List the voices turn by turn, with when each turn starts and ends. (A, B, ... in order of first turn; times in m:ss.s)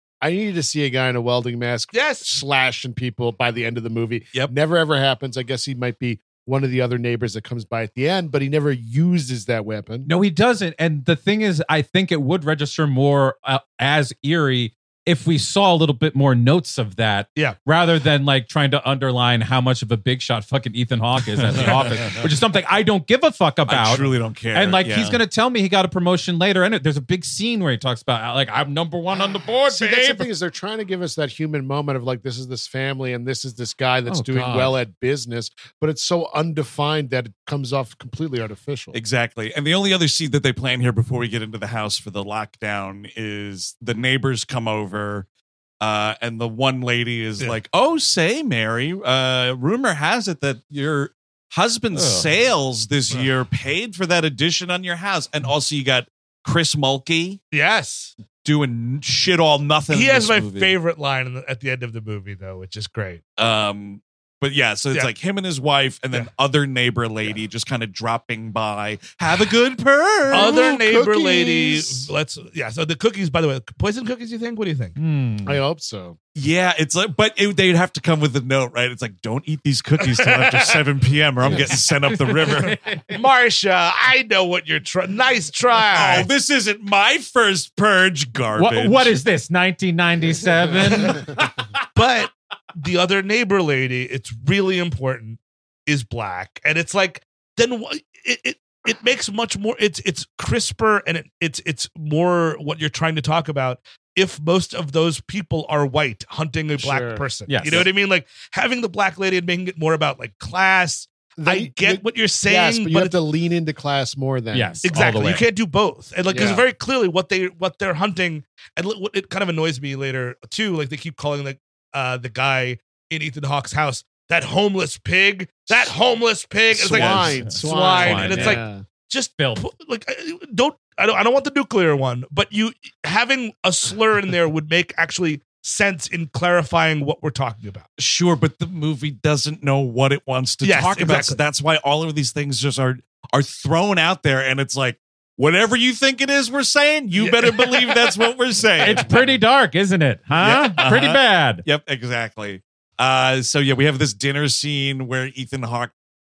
0:00.2-0:10.1 A
0:01.9-0:02.3 B
0:10.0-0:30.3 C
0:21.4-0:22.3 D
0:23.7-0:25.2 D
0:29.7-0:39.0 A
0:34.1-0:34.8 C
0:38.9-0:45.3 D
0:45.8-0:57.4 D
0:51.9-0:52.3 C
0:57.5-0:58.1 B
0:58.4-1:00.7 D
0:59.9-1:03.2 B
1:03.4-1:10.6 D
1:10.3-1:12.1 A
1:10.3-1:15.0 B
1:15.0-1:15.6 C
1:15.4-1:16.2 A
1:16.4-1:22.8 D
1:21.4-1:23.1 C
1:23.1-1:26.3 B
1:25.9-1:29.2 D
1:28.5-1:31.6 C
1:32.0-1:53.2 B
1:46.8-1:47.3 A
1:47.5-1:47.9 C
1:51.4-1:54.8 A
1:54.5-1:55.5 C
1:54.8-2:17.8 B
1:56.3-1:56.7 A
2:06.7-2:07.4 D
2:06.8-2:08.8 A
2:07.2-2:08.6 C
2:08.0-2:08.5 D
2:09.4-2:09.6 C
2:18.0-2:29.4 D
2:20.6-2:21.4 B
2:27.1-2:28.0 B
2:28.8-2:31.6 C
2:30.4-2:35.9 D